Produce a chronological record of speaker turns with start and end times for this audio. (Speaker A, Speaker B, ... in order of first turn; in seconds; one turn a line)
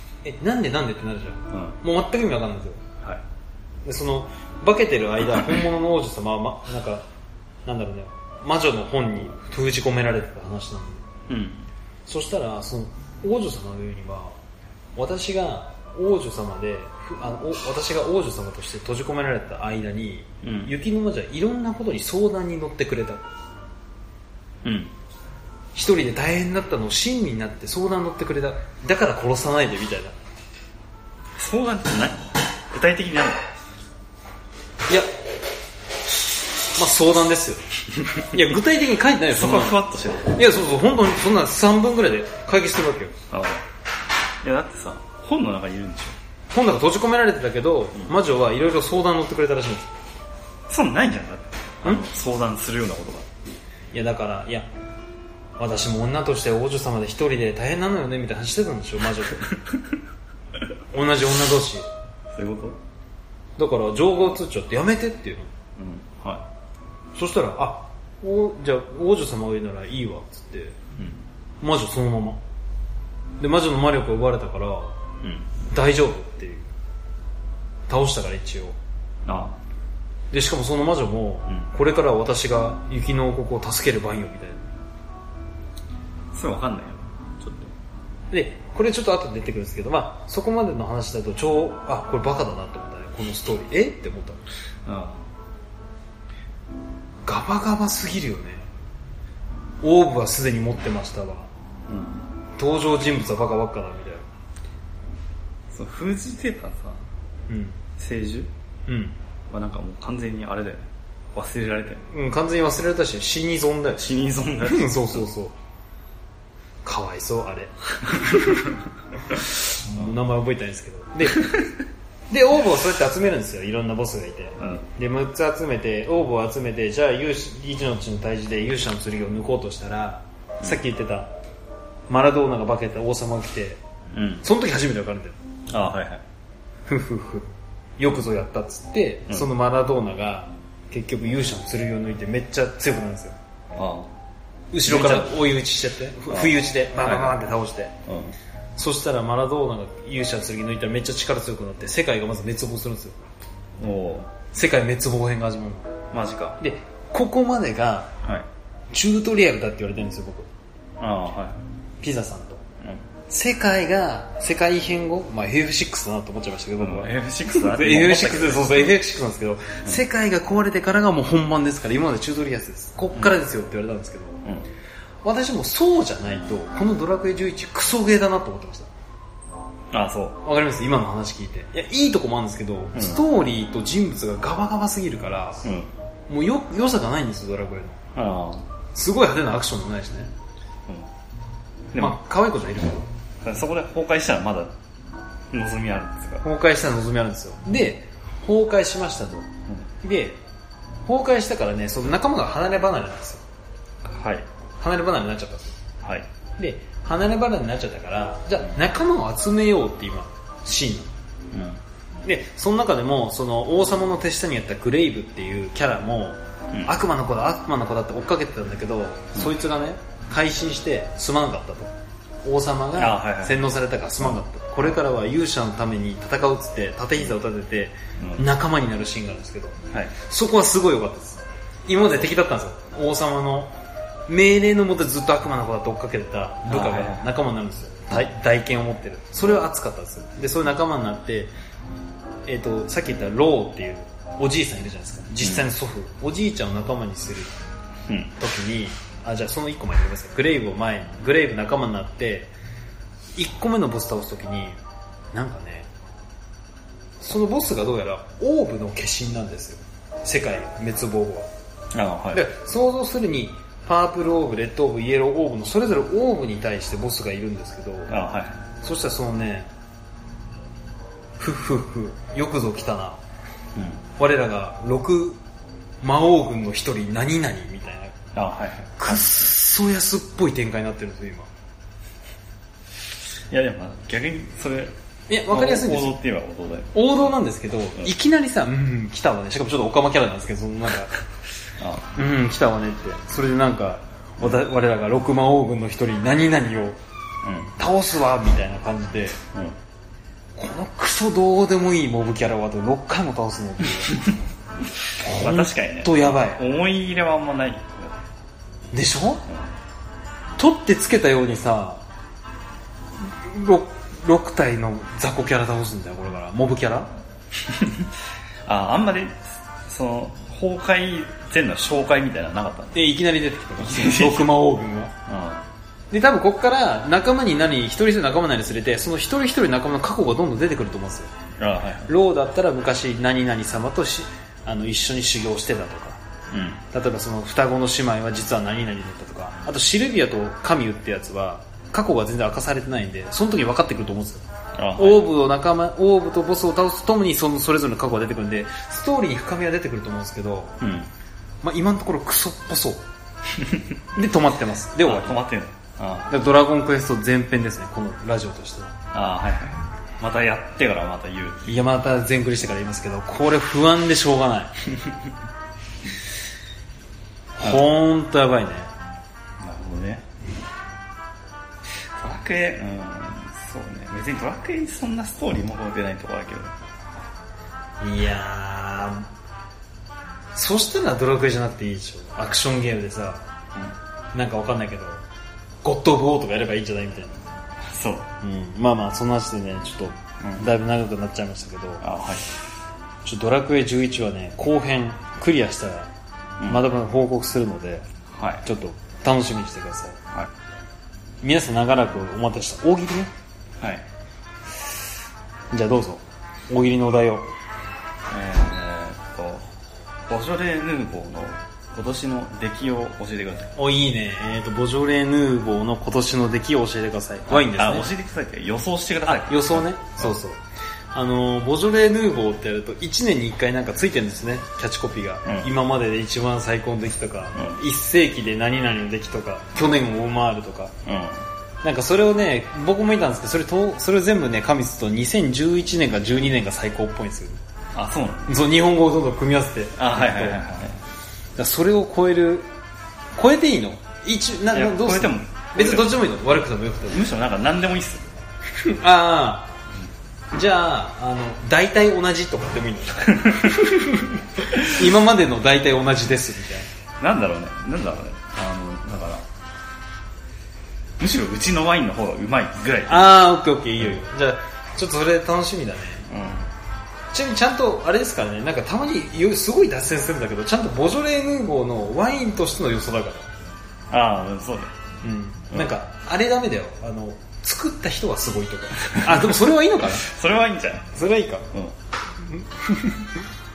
Speaker A: 0.2-2.8
Speaker B: 1.5-1.8
Speaker A: 3.9-7.0
Speaker A: 7.7-11.1
Speaker B: 11.3-11.7
Speaker A: 12.1-14.4
Speaker A: 15.0-23.2
Speaker B: 20.4-20.7
Speaker B: 24.6-24.9
Speaker A: 25.8-30.1
Speaker B: 31.4-33.5
Speaker A: 36.8-37.6
Speaker A: 38.1-43.1
Speaker B: 39.3-40.4
Speaker B: 43.3-43.6
Speaker B: 44.4-46.1
Speaker A: 46.5-49.9
Speaker B: 50.7-53.3
Speaker A: 53.9-54.7
Speaker A: 55.6-59.5
Speaker A: 60.9-61.9
Speaker B: 62.3-62.8
Speaker A: 63.6-65.5
Speaker B: 65.8-66.5
Speaker A: 67.2-70.8
Speaker A: 71.6-72.4
Speaker A: 73.4-75.0
Speaker B: 75.2-75.5
Speaker A: 75.7-76.7
Speaker A: 77.9-78.8
Speaker B: 79.3-79.6
Speaker A: 80.3-84.7
Speaker B: 86.3-87.7
Speaker A: 88.3-94.4
Speaker B: 94.8-95.2
Speaker A: 97.3-98.7
Speaker A: 99.8-101.5
Speaker B: 101.9-102.2
Speaker A: 102.6-104.3
Speaker B: 105.7-107.0
Speaker A: 107.5-107.8
Speaker B: 108.0-108.5
Speaker A: 108.9-109.1
Speaker B: 109.5-112.1
Speaker A: 112.1-115.5
Speaker B: 114.0-115.2
Speaker A: 116.8-118.7
Speaker A: 119.8-121.6
Speaker A: 122.3-131.3
Speaker B: 124.6-124.8
Speaker A: 132.1-133.8
Speaker B: 134.1-134.4
Speaker A: 134.4-135.4
Speaker B: 135.7-136.2
Speaker A: 136.9-143.3
Speaker B: 143.8-144.1
Speaker A: 144.7-147.9
Speaker B: 144.8-145.3
Speaker B: 146.3-147.4
Speaker B: 148.1-148.3
Speaker A: 148.8-153.2
Speaker B: 153.8-154.3
Speaker A: 154.5-155.9
Speaker B: 156.1-156.6
Speaker A: 156.6-158.1
Speaker A: 158.9-160.5
Speaker B: 161.0-161.6
Speaker A: 162.0-162.6
Speaker A: 163.3-174.4
Speaker B: 166.8-169.0
Speaker A: 175.2-178.9
Speaker B: 179.9-180.4
Speaker A: 180.4-185.6
Speaker B: 182.9-183.2
Speaker B: 185.6-185.9
Speaker A: 186.3-188.0
Speaker B: 188.1-188.7
Speaker A: 188.9-190.3
Speaker B: 191.9-192.2
Speaker A: 192.0-193.1
Speaker B: 193.4-194.7
Speaker B: 195.5-196.4
Speaker A: 196.4-199.5
Speaker A: 200.0-200.4
Speaker A: 201.1-203.4
Speaker B: 204.0-204.5
Speaker A: 204.8-205.8
Speaker B: 206.0-206.3
Speaker A: 206.6-211.1
Speaker B: 211.5-211.8
Speaker A: 212.2-221.9
Speaker A: 222.4-233.8
Speaker B: 223.0-223.6
Speaker A: 234.3-241.5
Speaker B: 236.7-237.3
Speaker A: 242.5-247.5
Speaker B: 248.1-248.3
Speaker A: 248.4-252.5
Speaker A: 253.4-254.8
Speaker A: 255.3-255.9
Speaker A: 257.2-261.5
Speaker B: 261.9-262.4
Speaker A: 262.3-268.1
Speaker B: 268.1-268.6
Speaker A: 268.8-269.7
Speaker A: 271.4-273.2
Speaker B: 273.8-274.0
Speaker A: 274.2-275.4
Speaker A: 276.0-278.1
Speaker B: 278.3-279.5
Speaker A: 279.0-281.5
Speaker B: 283.5-284.9
Speaker A: 285.3-286.2
Speaker B: 285.5-286.9
Speaker A: 286.9-291.1
Speaker B: 291.8-292.1
Speaker A: 292.1-297.0
Speaker B: 297.4-297.7
Speaker A: 297.8-299.4
Speaker A: 300.6-304.2
Speaker B: 304.1-304.4
Speaker A: 305.2-306.6
Speaker B: 305.2-308.2
Speaker A: 308.9-309.4
Speaker B: 309.5-309.7
Speaker A: 310.6-312.0
Speaker A: 313.2-317.1
Speaker B: 317.6-318.1
Speaker B: 318.6-323.0
Speaker A: 322.9-325.1
Speaker B: 323.8-324.5
Speaker B: 325.3-325.6
Speaker A: 326.1-331.3
Speaker B: 331.6-332.1
Speaker A: 332.1-336.2
Speaker B: 336.5-336.8
Speaker A: 336.9-344.4
Speaker B: 344.8-345.3
Speaker A: 345.0-350.8
Speaker B: 350.8-351.1
Speaker A: 351.6-353.0
Speaker B: 353.5-353.9
Speaker A: 354.1-355.4
Speaker B: 355.0-356.3
Speaker A: 356.3-358.9
Speaker B: 359.1-361.7
Speaker A: 361.6-364.8
Speaker A: 367.6-368.9
Speaker B: 369.6-370.3
Speaker B: 372.2-376.8
Speaker A: 378.0-379.3
Speaker A: 380.6-383.4
Speaker A: 384.3-385.2
Speaker A: 385.8-387.4
Speaker B: 387.8-388.3
Speaker A: 388.4-392.1
Speaker B: 392.0-392.5
Speaker A: 393.2-396.1
Speaker A: 396.7-398.1
Speaker B: 398.3-398.6
Speaker A: 398.6-400.2
Speaker A: 401.4-403.3
Speaker B: 403.8-404.1
Speaker A: 405.7-407.5
Speaker B: 408.3-409.7
Speaker B: 410.3-413.8
Speaker A: 413.8-418.1
Speaker B: 417.5-420.3
Speaker A: 419.3-420.6
Speaker A: 421.1-430.9
Speaker B: 425.4-425.7
Speaker B: 427.5-427.8
Speaker B: 431.1-431.4
Speaker A: 431.8-437.6
Speaker B: 437.9-438.6
Speaker A: 438.5-440.6
Speaker B: 440.0-441.0
Speaker A: 441.6-442.7
Speaker A: 443.4-447.2
Speaker B: 444.7-446.1
Speaker B: 447.1-448.3
Speaker A: 448.8-449.7
Speaker A: 450.5-456.9
Speaker B: 453.5-453.8
Speaker B: 457.2-459.5
Speaker B: 461.2-463.3
Speaker A: 463.1-466.3
Speaker B: 466.3-466.7
Speaker A: 467.3-473.5
Speaker B: 474.1-474.9
Speaker A: 475.2-480.3
Speaker B: 479.0-481.1
Speaker A: 481.1-481.7
Speaker A: 482.4-483.4